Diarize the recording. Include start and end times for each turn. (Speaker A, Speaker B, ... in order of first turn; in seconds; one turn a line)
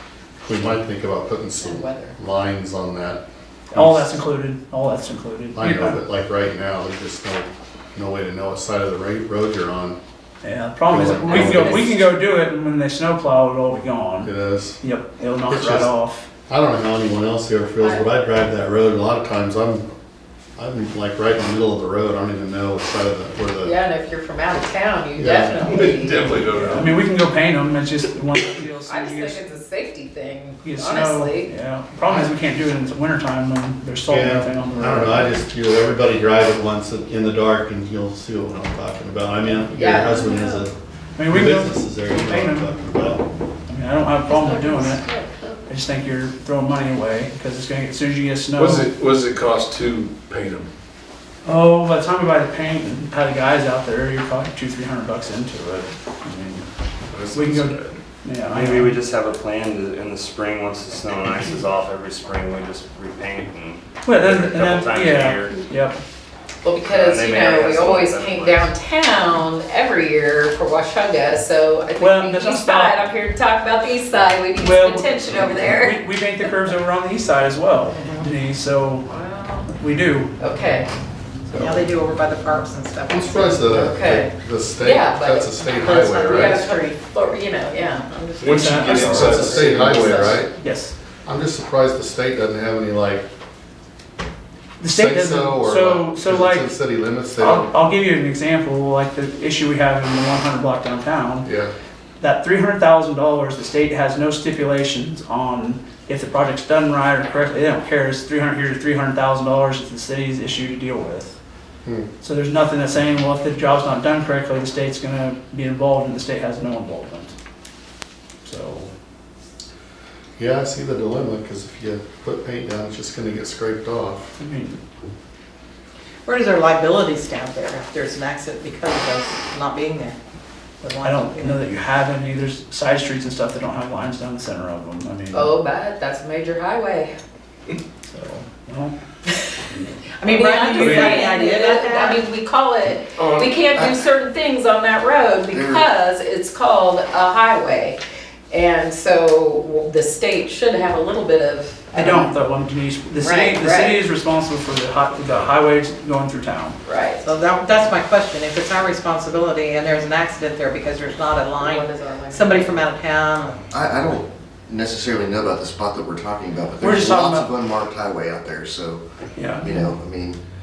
Speaker A: 0.4-3.2
Speaker B: 1.6-2.2
Speaker C: 3.7-6.0
Speaker A: 3.7-4.1
Speaker A: 5.5-10.0
Speaker C: 10.4-16.3
Speaker A: 10.9-12.0
Speaker B: 11.2-11.8
Speaker A: 14.2-14.8
Speaker A: 15.5-15.9
Speaker A: 16.5-19.9
Speaker A: 20.6-23.8
Speaker B: 23.6-26.4
Speaker A: 25.2-25.6
Speaker D: 25.7-27.0
Speaker C: 26.6-29.4
Speaker B: 28.9-31.5
Speaker C: 30.6-35.4
Speaker A: 34.1-40.7
Speaker B: 39.7-40.7
Speaker C: 41.2-43.1
Speaker A: 41.3-43.2
Speaker C: 43.7-45.0
Speaker B: 44.3-45.5
Speaker C: 45.7-48.9
Speaker D: 48.6-50.7
Speaker C: 51.5-56.7
Speaker D: 57.1-58.0
Speaker C: 57.3-59.0
Speaker E: 58.5-65.6
Speaker C: 64.0-66.0
Speaker B: 66.6-76.0
Speaker E: 66.8-68.7
Speaker C: 72.0-73.0
Speaker C: 74.6-79.1
Speaker F: 77.9-78.3
Speaker B: 79.1-79.7
Speaker C: 79.8-80.3
Speaker B: 80.4-80.9
Speaker F: 81.5-83.8
Speaker A: 83.1-86.7
Speaker B: 83.7-88.2
Speaker F: 86.2-87.0
Speaker F: 87.8-89.3
Speaker D: 88.4-90.5
Speaker C: 88.6-89.0
Speaker A: 88.9-90.5
Speaker B: 88.9-90.4
Speaker C: 90.5-90.9
Speaker A: 91.2-93.3
Speaker C: 94.8-96.7
Speaker A: 94.9-97.7
Speaker C: 97.4-101.5
Speaker A: 101.4-101.7
Speaker C: 102.2-111.4
Speaker C: 112.2-117.3
Speaker C: 118.4-118.9
Speaker A: 120.4-124.3
Speaker C: 124.4-124.8
Speaker F: 126.3-130.2
Speaker F: 130.8-131.6
Speaker C: 131.0-135.5
Speaker B: 135.3-137.1
Speaker C: 138.1-138.9
Speaker F: 140.2-142.2
Speaker B: 140.2-148.0
Speaker C: 140.8-141.2
Speaker D: 143.2-143.6
Speaker G: 145.5-145.8
Speaker B: 148.5-152.3
Speaker C: 151.9-156.8
Speaker B: 153.2-154.0
Speaker B: 156.8-157.3
Speaker F: 157.2-163.7
Speaker B: 161.6-162.8
Speaker G: 163.7-170.4
Speaker C: 166.8-167.5
Speaker C: 169.4-169.7